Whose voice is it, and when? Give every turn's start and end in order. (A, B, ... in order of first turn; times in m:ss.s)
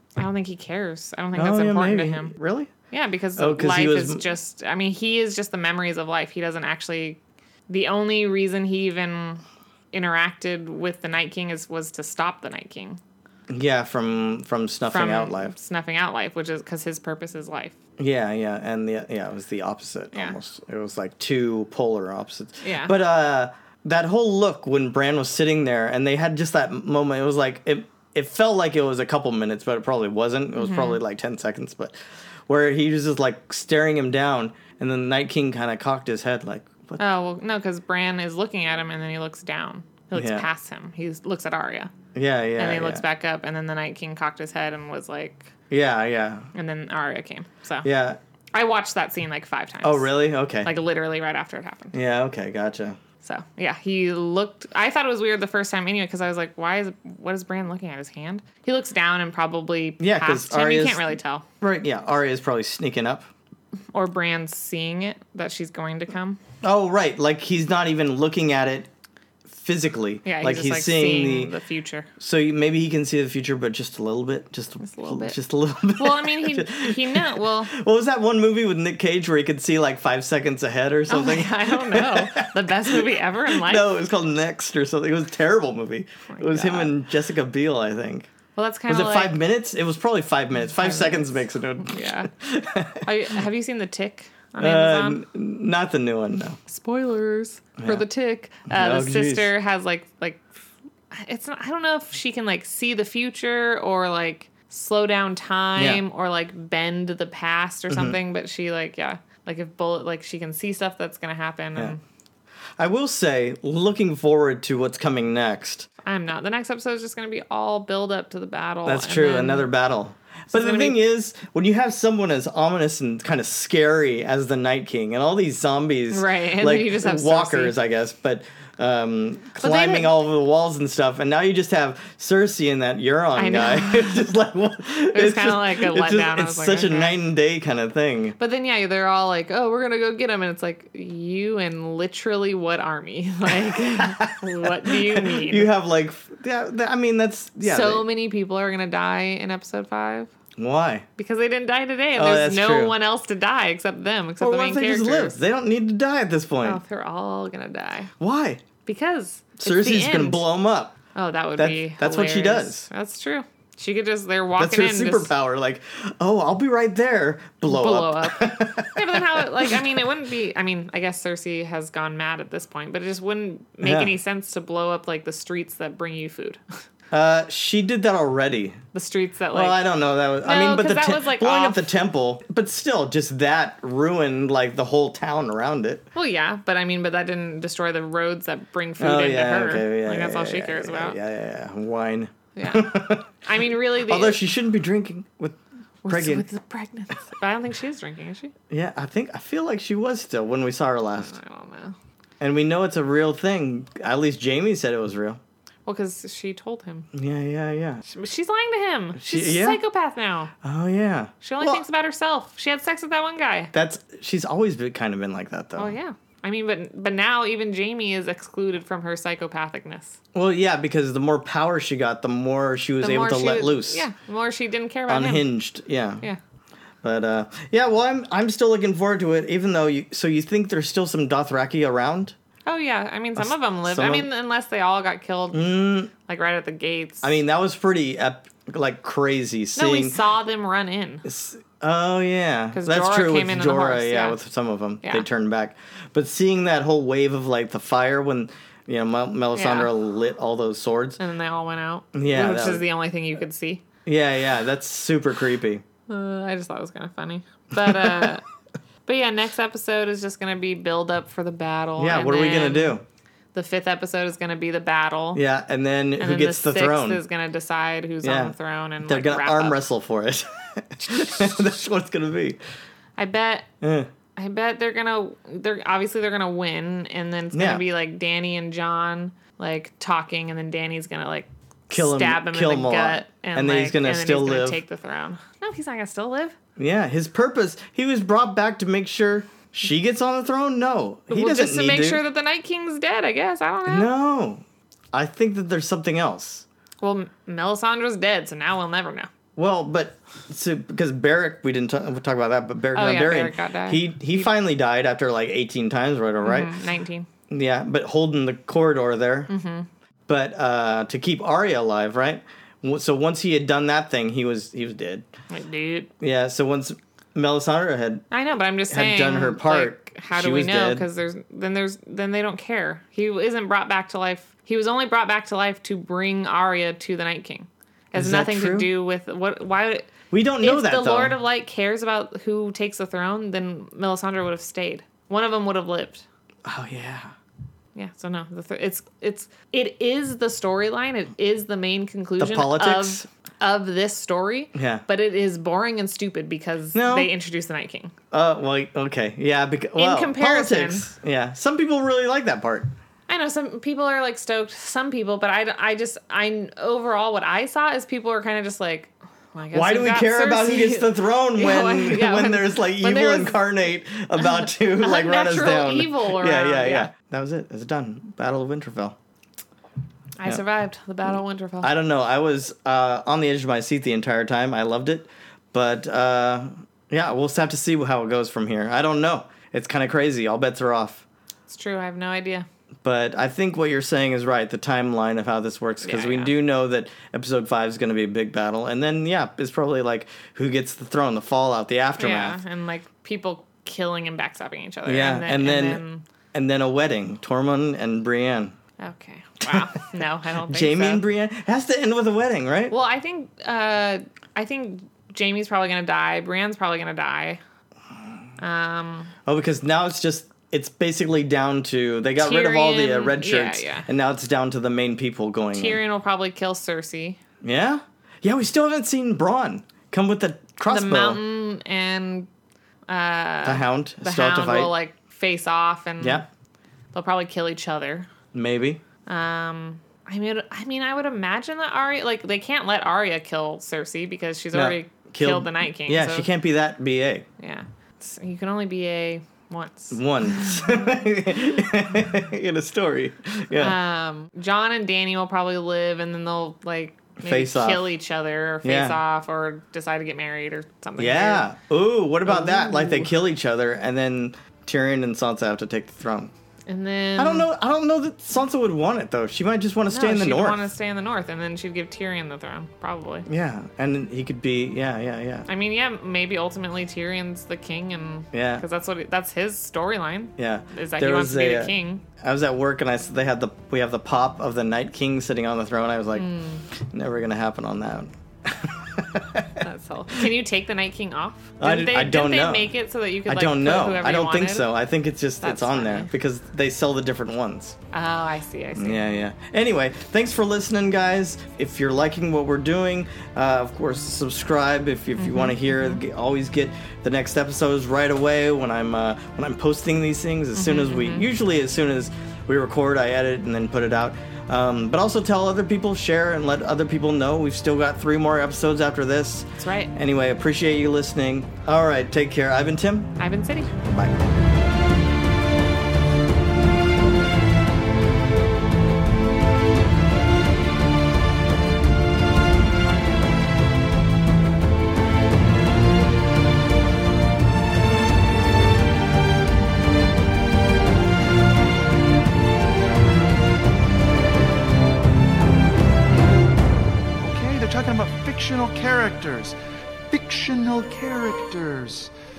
0:00.2-0:02.3 A
0:01.3-0:02.7 B
0:02.9-0:13.0 A
0:03.4-0:04.2 B
0:13.5-0:15.5 B
0:14.9-0:17.8 A
0:18.0-0:32.0 B
0:22.6-0:22.9 A
0:30.6-0:31.0 A
0:32.5-0:37.0 B
0:37.0-0:41.9 A
0:40.1-0:40.5 B
0:42.1-0:43.0 B
0:42.6-0:45.5 A
0:45.7-0:46.5 B
0:46.5-0:47.9 A
0:47.8-0:48.2 B
0:48.5-0:51.9 A
0:49.8-0:50.7 B
0:51.9-0:53.0 B
0:53.2-1:01.4 A
1:00.0-1:03.3 B
1:03.9-1:06.4 A
1:06.6-1:08.9 B
1:09.5-1:11.5 B
1:10.2-1:12.1 A
1:12.2-1:28.3 B
1:14.8-1:15.4 A
1:16.0-1:17.7 A
1:21.1-1:23.9 A
1:26.3-1:26.9 A
1:28.6-1:29.4 A
1:28.9-1:33.1 B
1:30.7-1:32.3 A
1:33.0-1:35.2 A
1:34.6-1:36.6 B
1:36.6-1:40.5 A
1:37.8-1:38.0 B
1:38.7-1:39.5 B
1:41.1-1:52.0 A
1:45.8-1:46.0 B
1:47.9-1:48.2 B
1:52.8-1:55.9 B
1:56.0-1:59.7 A
1:58.8-2:18.4 B
2:00.5-2:01.0 A
2:06.1-2:07.8 A
2:09.6-2:10.1 A
2:13.4-2:14.3 A
2:15.1-2:17.2 A
2:18.4-2:25.7 A
2:23.5-2:28.0 B
2:27.6-2:30.3 A
2:30.6-2:31.0 B
2:31.2-2:35.4 A
2:32.1-2:33.0 B
2:34.4-2:36.8 B
2:36.6-2:38.1 A
2:38.2-2:38.6 B
2:38.8-2:40.5 A
2:39.6-2:41.0 B
2:41.1-2:45.3 A
2:41.6-2:42.9 B
2:44.6-2:50.0 B
2:47.6-2:56.6 A
2:53.8-2:54.1 B
2:57.1-2:58.8 B
2:58.9-2:59.8 A
2:59.5-3:06.0 B
3:00.4-3:01.9 A
3:06.1-3:11.2 A
3:09.0-3:16.4 B
3:12.6-3:14.4 A
3:16.0-3:18.5 A
3:18.7-3:21.3 B
3:21.2-3:22.0 A
3:22.4-3:25.4 B
3:25.8-3:27.1 A
3:27.1-3:28.0 B
3:28.1-3:30.5 A
3:29.2-3:29.8 B
3:30.6-3:31.8 B
3:31.4-3:33.7 A
3:33.7-3:35.9 B
3:35.8-3:40.2 A
3:40.3-3:44.0 B
3:43.0-3:45.5 A
3:45.1-3:46.2 B
3:47.0-3:52.3 B
3:52.6-3:57.3 A
3:53.4-3:54.3 B
3:55.5-3:56.1 B
3:57.2-4:00.2 B
3:59.8-4:01.2 A
4:01.2-4:11.2 B
4:02.7-4:04.4 A
4:09.5-4:09.9 A
4:11.2-4:13.8 A
4:12.1-4:12.8 B
4:14.0-4:15.8 B
4:16.1-4:18.4 A
4:17.8-4:18.4 B
4:19.0-4:23.0 A
4:22.0-4:23.0 B
4:23.5-4:25.4 A
4:25.3-4:27.2 B
4:26.2-4:29.8 A
4:28.2-4:32.6 B
4:33.2-4:33.7 A
4:33.8-4:34.1 B
4:34.4-4:46.6 A
4:37.5-4:37.8 B
4:41.9-4:44.8 B
4:46.8-4:52.2 B
4:51.3-4:54.1 A
4:53.8-4:56.6 B
4:57.0-4:59.3 A
4:59.6-5:06.7 B
5:02.9-5:04.5 A
5:06.4-5:07.3 A
5:07.5-5:09.5 B
5:09.5-5:09.9 A
5:10.3-5:15.3 B
5:15.5-5:16.1 A
5:16.2-5:18.2 B
5:18.3-5:36.2 A
5:18.9-5:21.1 B
5:28.1-5:28.9 B
5:30.3-5:31.4 B
5:36.6-5:37.3 B
5:37.9-5:48.1 A
5:42.4-5:43.2 B
5:44.7-5:45.0 B
5:46.9-5:47.3 B
5:48.3-5:52.9 B
5:50.0-5:51.1 A
5:53.3-6:03.6 A
5:59.7-6:09.2 B
6:04.4-6:07.1 A
6:10.4-6:11.9 A
6:11.8-6:21.2 B
6:21.7-6:22.6 A
6:23.0-6:32.6 B
6:26.0-6:26.5 A
6:32.2-6:36.2 A
6:35.0-6:36.0 B
6:36.5-6:38.7 B
6:39.0-6:41.2 A
6:39.6-6:42.9 B
6:42.9-6:47.6 A
6:48.6-6:49.3 A
6:49.4-6:56.0 B
6:52.4-6:54.1 A
6:55.7-6:57.4 A
6:57.6-7:01.4 B
7:00.9-7:02.5 A
7:03.1-7:06.5 A
7:03.6-7:04.9 B
7:06.2-7:06.5 B
7:07.1-7:08.3 A
7:08.5-7:09.0 B
7:09.3-7:16.5 A
7:14.7-7:17.5 B
7:17.6-7:21.0 A
7:20.1-7:24.0 B
7:23.8-7:31.7 A
7:27.4-7:28.0 B
7:28.8-7:29.2 B
7:31.2-7:36.5 B
7:32.4-7:33.3 A
7:36.9-7:37.7 A
7:37.4-7:40.9 B
7:40.1-7:43.5 A
7:43.5-7:45.7 B
7:45.7-7:52.2 A
7:48.5-7:48.8 B
7:50.6-7:59.8 B
7:56.3-7:56.8 A
7:59.8-8:04.9 A
8:01.8-8:02.9 B
8:03.5-8:08.0 B
8:05.6-8:06.3 A
8:08.1-8:09.2 A
8:09.0-8:33.3 B
8:15.4-8:16.2 A
8:20.7-8:21.5 A
8:29.8-8:30.1 A
8:33.4-8:34.0 A
8:34.0-8:34.4 B
8:57.4-8:59.7 C
9:00.3-9:02.3 C